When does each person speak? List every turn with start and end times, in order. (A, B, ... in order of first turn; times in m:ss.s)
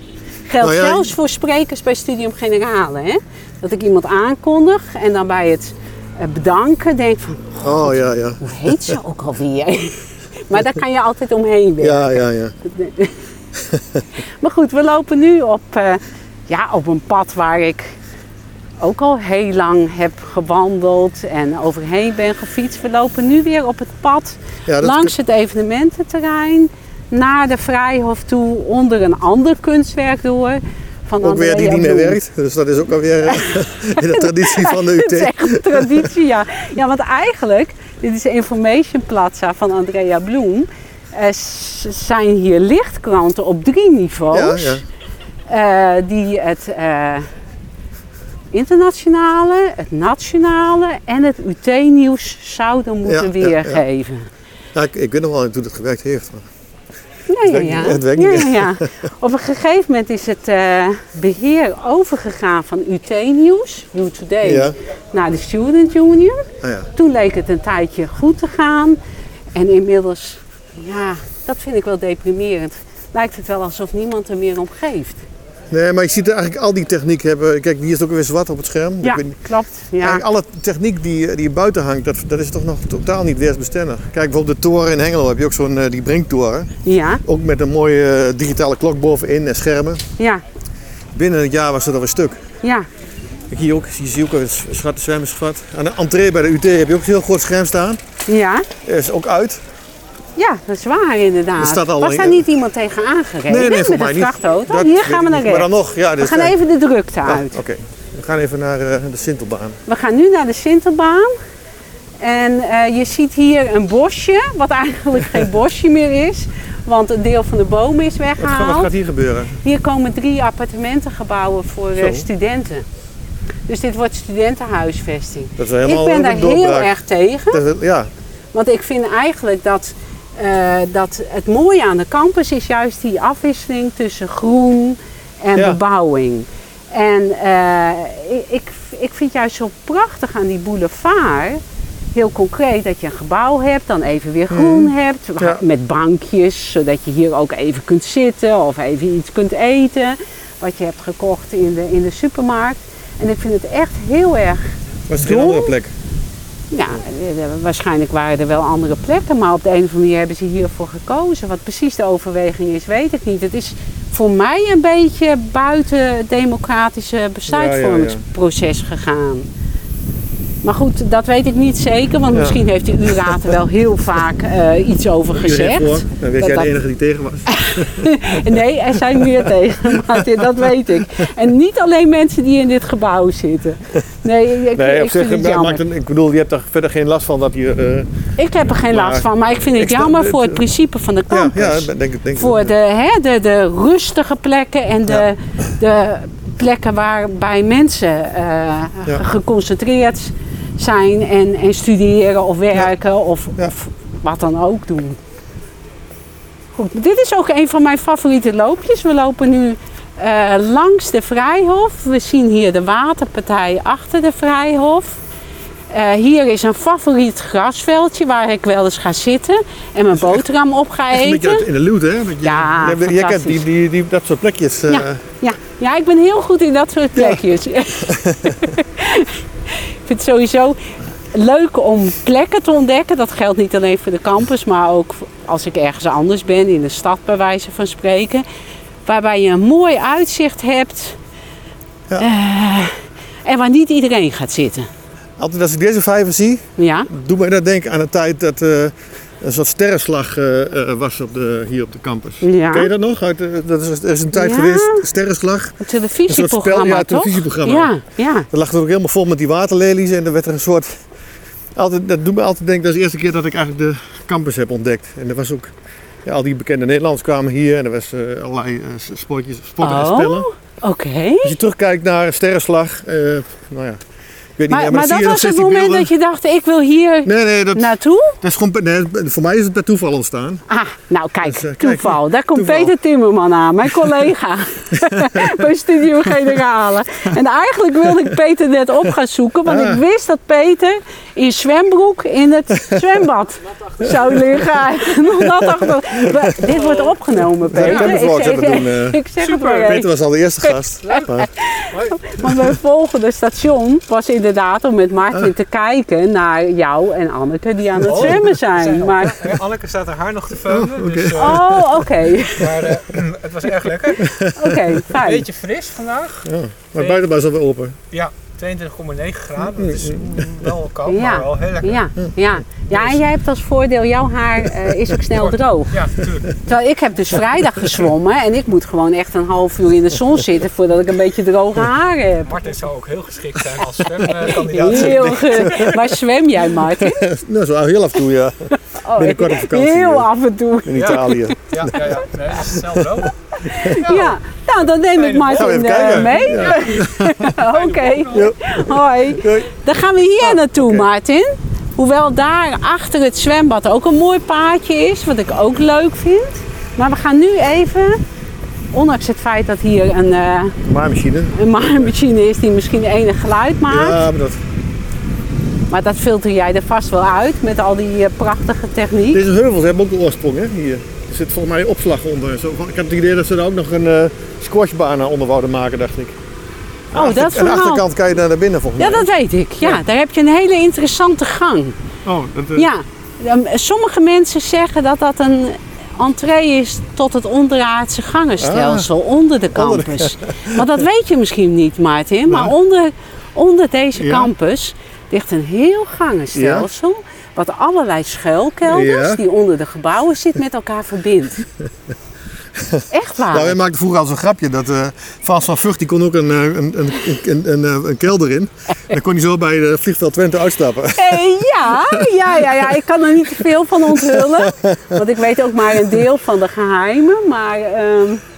0:00.5-0:13.3 A
0:00.6-0:01.1 B
0:07.6-0:09.0 B
0:11.8-0:12.6 B
0:13.6-0:14.0 B
0:14.2-0:18.0 A
0:18.8-0:32.2 A
0:24.7-0:25.2 B
0:31.2-0:36.1 B
0:33.3-0:44.8 A
0:44.3-0:44.8 B
0:45.5-0:47.3 A
0:48.5-0:54.3 A
0:53.1-0:53.8 B
0:54.7-0:56.5 B
0:57.3-1:09.0 A
0:57.5-0:58.9 B
1:04.4-1:04.8 B
1:06.6-1:06.9 B
1:09.6-1:15.3 A
1:15.7-1:19.4 B
1:19.0-1:20.2 A
1:20.0-1:26.7 B
1:26.8-1:27.2 A
1:27.2-1:30.0 B
1:30.2-1:30.4 A
1:31.1-1:32.4 B
1:32.6-1:32.9 A
1:33.5-1:38.0 B
1:38.3-1:38.7 A
1:38.8-1:39.6 B
1:40.4-1:47.6 A
1:41.6-1:42.4 B
1:43.5-1:46.6 B
1:47.2-1:49.8 B
1:49.9-1:51.4 A
1:52.2-1:58.9 A
1:58.4-1:59.6 B
1:59.6-2:02.9 A
2:02.0-2:02.3 B
2:03.7-2:07.6 A
2:05.6-2:08.1 B
2:08.5-2:21.6 A
2:15.6-2:15.8 B
2:22.1-2:35.7 A
2:24.5-2:25.6 B
2:35.1-2:35.9 B
2:36.7-2:49.5 A
2:47.5-2:48.2 B
2:50.6-2:56.7 A
2:52.3-2:53.6 B
2:55.3-3:01.3 B
2:57.5-3:05.8 A
3:04.7-3:08.1 B
3:08.4-3:25.2 A
3:08.8-3:10.6 B
3:11.3-3:12.7 B
3:26.8-3:35.2 A
3:35.9-3:41.7 A
3:40.2-3:40.4 B
3:41.1-3:45.2 B
3:42.4-3:43.6 A
3:44.9-3:58.5 A
3:47.2-3:47.4 B
3:48.0-3:48.7 B
3:59.1-4:01.2 A
4:02.2-4:04.9 A
4:05.4-4:17.9 B
4:06.8-4:07.1 A
4:12.4-4:12.9 A
4:14.3-4:15.1 A
4:15.8-4:18.5 A
4:18.5-4:21.1 B
4:21.8-4:25.7 B
4:26.2-4:30.5 B
4:29.8-4:31.6 A
4:31.4-4:34.0 B
4:34.6-4:36.1 B
4:34.7-4:38.4 A
4:37.2-4:40.6 B
4:40.7-5:00.1 A
4:41.4-4:42.9 B
4:44.9-4:45.7 B
4:49.7-4:50.0 B
4:52.8-4:53.0 B
4:53.9-4:54.2 C
4:54.0-4:54.4 B
4:55.4-4:56.7 B
4:56.6-4:57.2 C
4:57.7-4:59.2 B
4:57.8-4:58.2 C
4:59.4-4:59.9 C
4:59.8-5:01.5 B
5:01.1-5:09.5 A
5:01.9-5:02.2 C
5:02.4-5:02.7 B
5:08.0-5:11.8 C
5:08.1-5:08.5 B
5:10.6-5:11.9 B
5:11.4-5:12.9 A
5:12.5-5:14.3 C
5:14.2-5:15.1 B
5:14.4-5:15.5 A
5:15.1-5:17.2 C
5:16.4-5:18.0 B
5:18.1-5:22.0 C
5:19.7-5:20.7 B
5:21.0-5:26.0 A
5:22.9-5:23.2 C
5:24.8-5:25.5 B
5:25.9-5:26.6 C
5:26.6-5:32.7 A
5:32.5-5:36.0 C
5:34.2-5:37.2 A
5:34.7-5:36.0 B
5:36.8-5:38.6 B
5:38.9-5:42.2 A
5:39.1-5:40.3 B
5:40.8-5:42.2 B
5:40.9-5:46.8 C
5:42.7-5:44.0 B
5:43.5-5:58.2 A
5:45.5-5:47.6 B
5:47.6-5:48.5 C
5:48.3-5:49.7 B
5:50.4-5:51.1 B
5:58.9-6:00.8 A
6:00.8-6:02.1 B
6:01.5-6:04.2 A
6:03.9-6:04.6 B
6:05.9-6:09.4 A
6:09.3-6:16.4 B
6:17.1-6:19.3 B
6:17.1-6:18.0 A
6:19.0-6:22.0 A
6:22.2-6:22.9 B
6:22.8-6:41.6 A
6:28.6-6:29.1 B
6:29.7-6:30.9 B
6:32.5-6:32.7 B
6:34.2-6:34.5 B
6:36.5-6:36.9 B
6:38.8-6:39.4 B
6:42.8-6:53.0 B
6:43.1-6:43.8 A
6:51.2-6:58.4 A
6:53.6-6:55.2 B